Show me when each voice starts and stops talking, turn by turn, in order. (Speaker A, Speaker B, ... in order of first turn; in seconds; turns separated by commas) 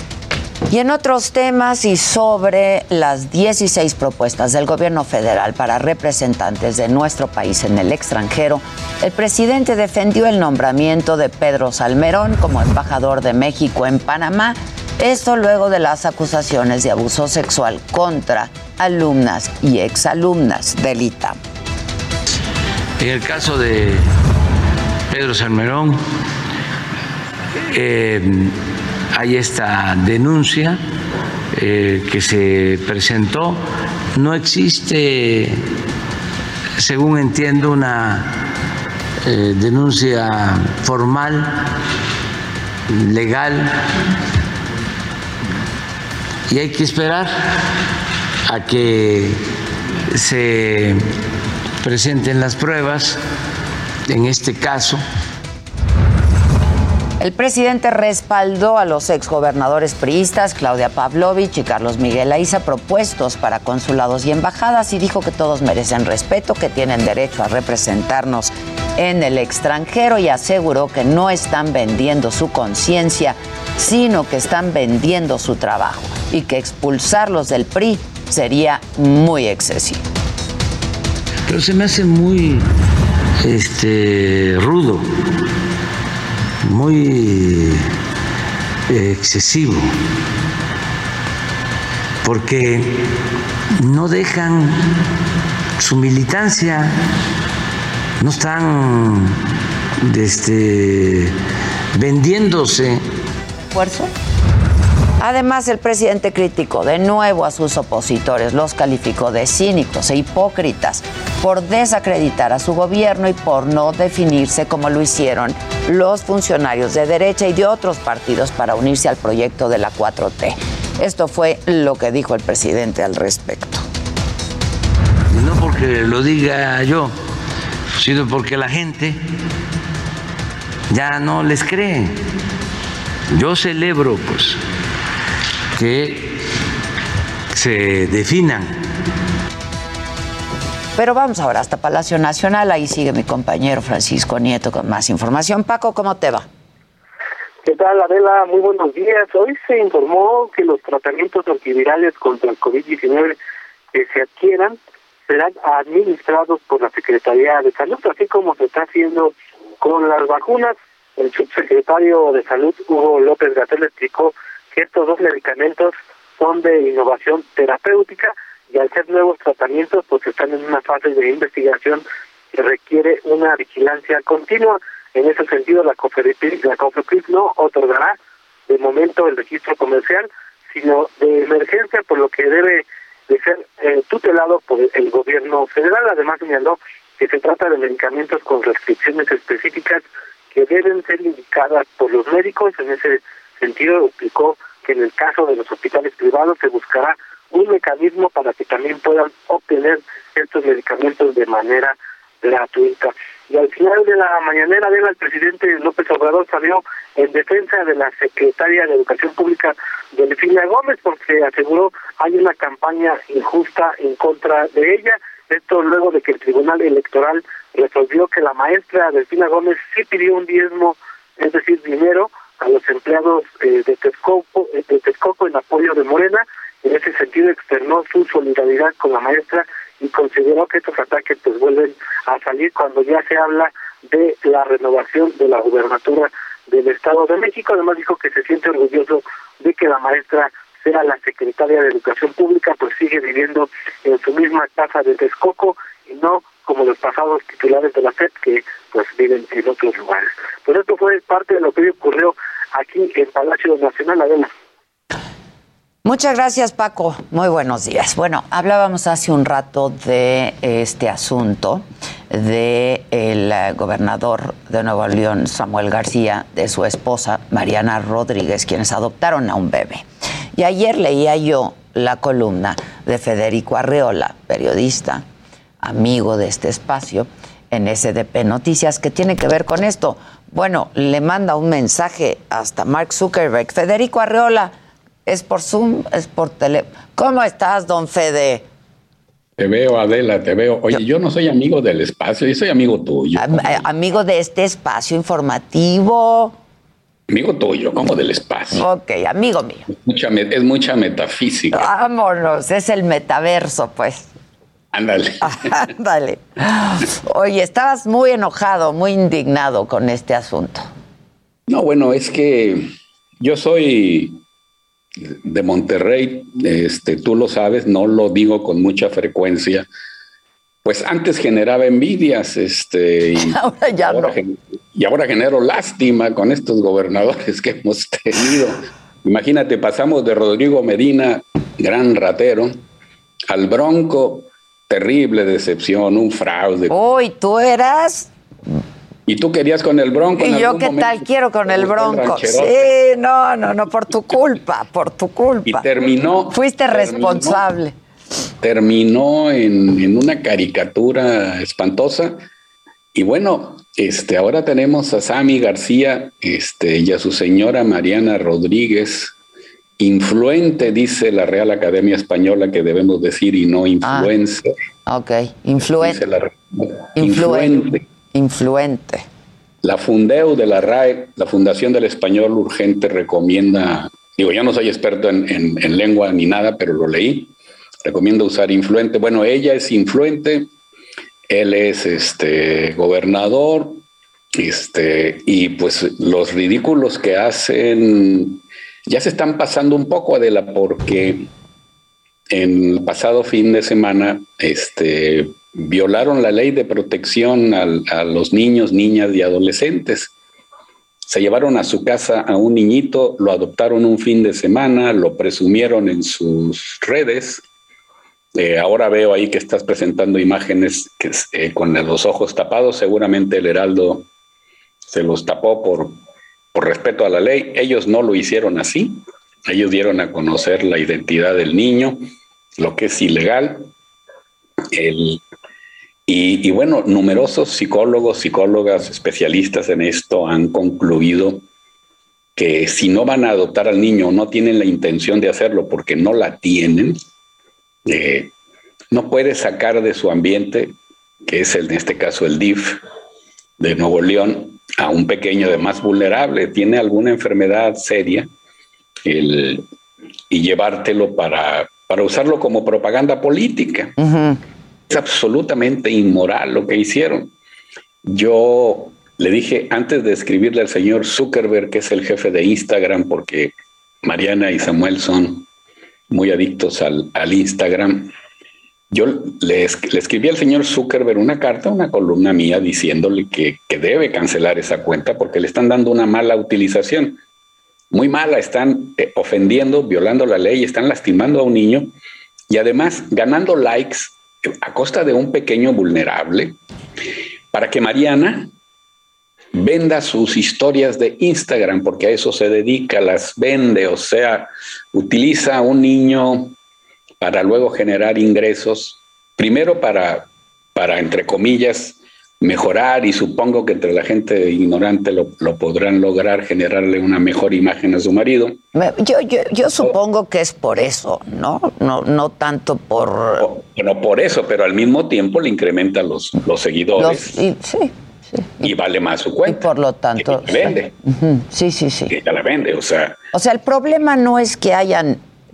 Speaker A: 0.7-21.4, Speaker B: 23.0-24.1, Speaker B: 25.1-26.0, Speaker B: 27.7-28.5, Speaker B: 29.1-30.8, Speaker B: 31.5-33.6, Speaker B: 34.1-35.6, Speaker B: 36.8-38.4, Speaker B: 39.3-41.7, Speaker B: 42.9-43.8, Speaker B: 46.5-47.4, Speaker B: 48.5-49.4, Speaker B: 50.1-51.0, Speaker B: 51.8-53.2, Speaker B: 54.1-55.0, Speaker A: 57.2-80.0, Speaker B: 81.5-82.7, Speaker B: 83.4-85.1, Speaker B: 86.6-87.8, Speaker B: 88.9-89.9, Speaker B: 92.2-93.1, Speaker B: 93.8-94.9, Speaker B: 95.8-97.0, Speaker B: 98.2-99.3, Speaker B: 100.0-101.3, Speaker B: 101.9-103.0, Speaker A: 103.7-104.1, Speaker A: 105.2-123.8, Speaker B: 125.3-127.2, Speaker B: 128.0-129.2, Speaker B: 130.9-132.2, Speaker B: 133.3-134.6, Speaker B: 135.8-136.4, Speaker B: 137.5-138.8, Speaker A: 140.9-146.4, Speaker C: 147.6-153.3, Speaker C: 153.9-154.8, Speaker C: 155.3-178.2, Speaker C: 178.7-254.5, Speaker A: 256.0-275.2, Speaker A: 275.8-284.7, Speaker A: 285.2-288.6, Speaker D: 289.6-293.8, Speaker A: 293.4-296.6, Speaker D: 297.3-298.8, Speaker A: 298.7-299.9, Speaker D: 300.0-301.9, Speaker A: 301.7-304.3, Speaker D: 304.9-305.8, Speaker A: 305.4-310.9, Speaker D: 311.7-312.9, Speaker D: 313.4-314.4, Speaker D: 315.2-319.9, Speaker D: 320.8-332.8, Speaker A: 323.4-324.4, Speaker D: 333.5-336.9, Speaker A: 336.9-338.3, Speaker D: 339.3-342.9, Speaker A: 340.4-347.9, Speaker D: 345.6-347.6, Speaker D: 348.6-352.4, Speaker D: 353.1-359.3, Speaker D: 360.0-364.7, Speaker A: 364.0-364.3, Speaker A: 365.1-366.2, Speaker D: 365.9-368.0, Speaker A: 367.2-369.2, Speaker D: 369.8-377.5, Speaker D: 378.0-380.7, Speaker D: 381.5-384.0, Speaker D: 384.6-391.5, Speaker D: 392.5-400.3, Speaker D: 401.3-407.6, Speaker D: 408.6-414.2, Speaker D: 415.1-416.2, Speaker D: 416.7-422.2, Speaker D: 422.8-423.9, Speaker D: 424.9-425.4, Speaker D: 426.3-431.6, Speaker D: 432.6-437.2, Speaker D: 438.1-438.5, Speaker D: 439.1-440.9, Speaker D: 441.5-443.0, Speaker D: 443.8-448.5, Speaker D: 449.2-449.8, Speaker D: 450.5-454.1, Speaker A: 454.2-454.6, Speaker D: 455.1-457.5, Speaker D: 458.2-465.6, Speaker D: 466.3-468.3, Speaker D: 469.1-477.4, Speaker D: 478.1-482.1, Speaker D: 482.7-486.8, Speaker D: 487.7-488.7, Speaker D: 489.7-496.7, Speaker D: 497.4-508.8, Speaker A: 508.9-513.7, Speaker D: 513.6-517.6, Speaker A: 517.2-518.9, Speaker D: 518.8-521.1, Speaker A: 519.6-522.3, Speaker D: 522.3-523.4, Speaker A: 523.5-525.4